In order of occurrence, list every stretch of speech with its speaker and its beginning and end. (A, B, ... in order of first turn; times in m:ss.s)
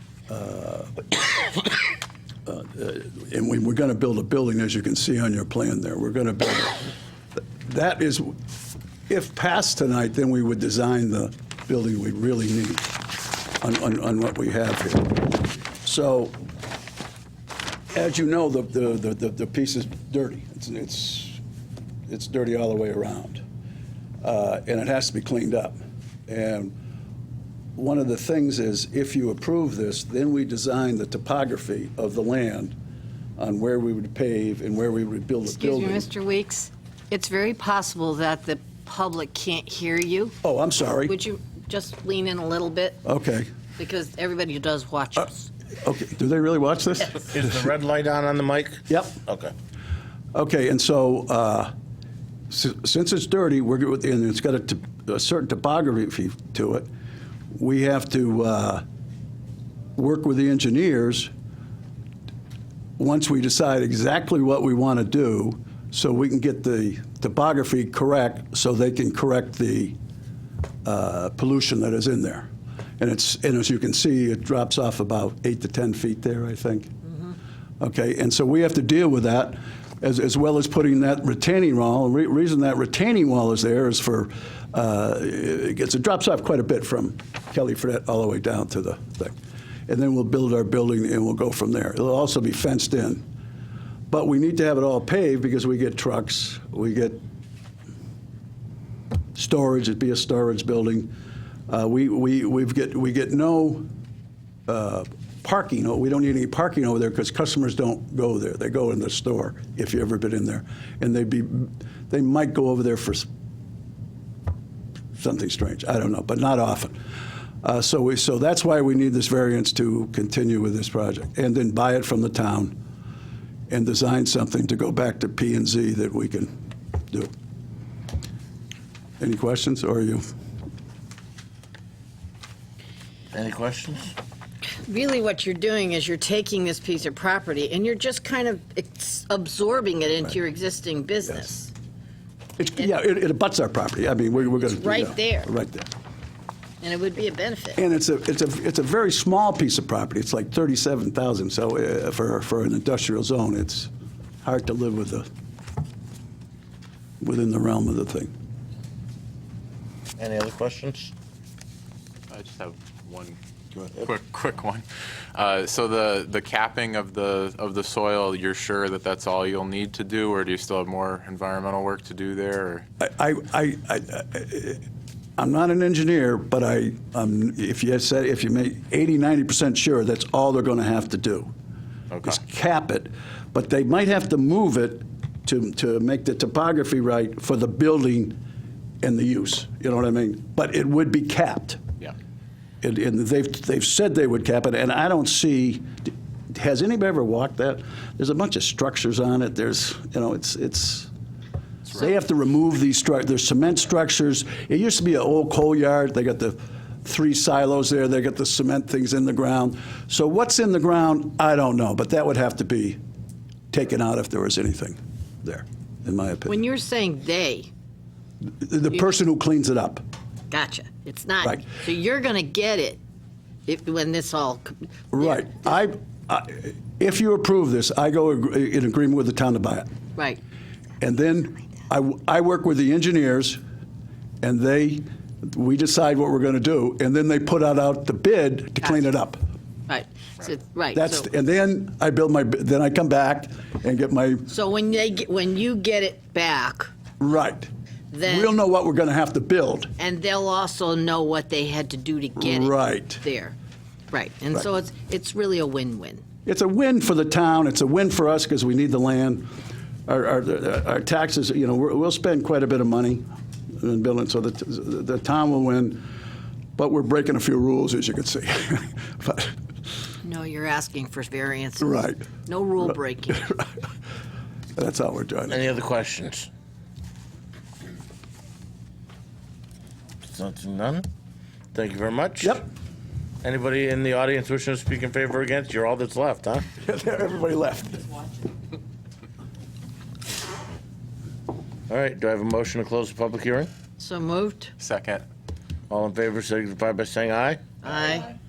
0:00.3-0:01.0 A
0:02.5-0:08.4 A
0:09.1-0:16.4 A
0:17.9-0:21.4 A
0:22.1-0:23.4 A
0:24.2-0:25.8 A
0:26.3-0:26.7 A
0:27.8-0:32.8 A
0:33.4-0:36.1 A
0:35.5-0:40.4 B
0:40.4-0:41.2 A
0:41.0-0:43.0 B
0:43.0-0:43.5 A
0:43.8-0:45.5 B
0:45.8-0:47.4 A
0:47.3-0:49.5 C
0:48.9-0:49.2 A
0:50.3-0:51.7 A
0:52.5-0:56.9 A
0:57.5-0:58.8 A
1:00.0-1:01.3 A
1:03.0-1:10.0 A
1:10.8-1:12.5 A
1:13.0-1:16.9 A
1:17.8-1:29.4 A
1:29.9-1:33.2 A
1:34.1-1:37.2 A
1:39.4-1:41.1 A
1:41.7-1:43.9 A
1:44.7-1:53.3 A
1:55.2-1:57.0 A
1:57.6-2:02.8 A
2:03.7-2:06.5 A
2:09.2-2:10.2 A
2:13.3-2:14.2 C
2:14.7-2:21.7 B
2:22.6-2:25.9 A
2:24.5-2:25.5 B
2:26.8-2:27.8 B
2:27.8-2:33.9 A
2:34.4-2:35.3 A
2:37.2-2:38.3 A
2:40.2-2:41.1 C
2:42.3-2:52.9 D
2:53.0-2:54.8 A
2:55.4-3:01.5 A
3:02.2-3:08.4 A
3:09.0-3:11.8 A
3:12.8-3:21.1 A
3:21.9-3:33.0 A
3:33.7-3:36.6 A
3:36.5-3:37.7 B
3:38.4-3:40.0 A
3:40.5-3:43.0 B
3:43.7-3:45.5 B
3:45.1-3:49.9 A
3:51.0-3:53.6 A
3:54.4-3:59.4 A
3:59.9-4:01.3 B
4:00.9-4:04.5 A
4:04.5-4:06.9 B
4:07.2-4:07.7 A
4:08.1-4:08.6 B
4:08.3-4:09.9 A
4:10.0-4:13.6 B
4:12.4-4:13.2 A
4:14.1-4:16.2 B
4:16.5-4:19.5 A
4:20.1-4:23.2 A
4:23.8-4:26.0 A
4:26.8-4:29.5 A
4:30.2-4:33.5 B
4:31.8-4:32.2 A
4:33.3-4:33.7 A
4:34.8-4:35.7 A
4:35.5-4:36.5 C
4:40.3-4:41.1 C
4:41.7-4:42.6 C
4:43.4-4:46.7 C
4:46.8-4:48.2 A
4:51.9-4:53.7 C
4:54.0-4:54.7 B
4:54.8-4:55.2 D
4:55.9-4:57.8 C
4:57.8-4:58.4 B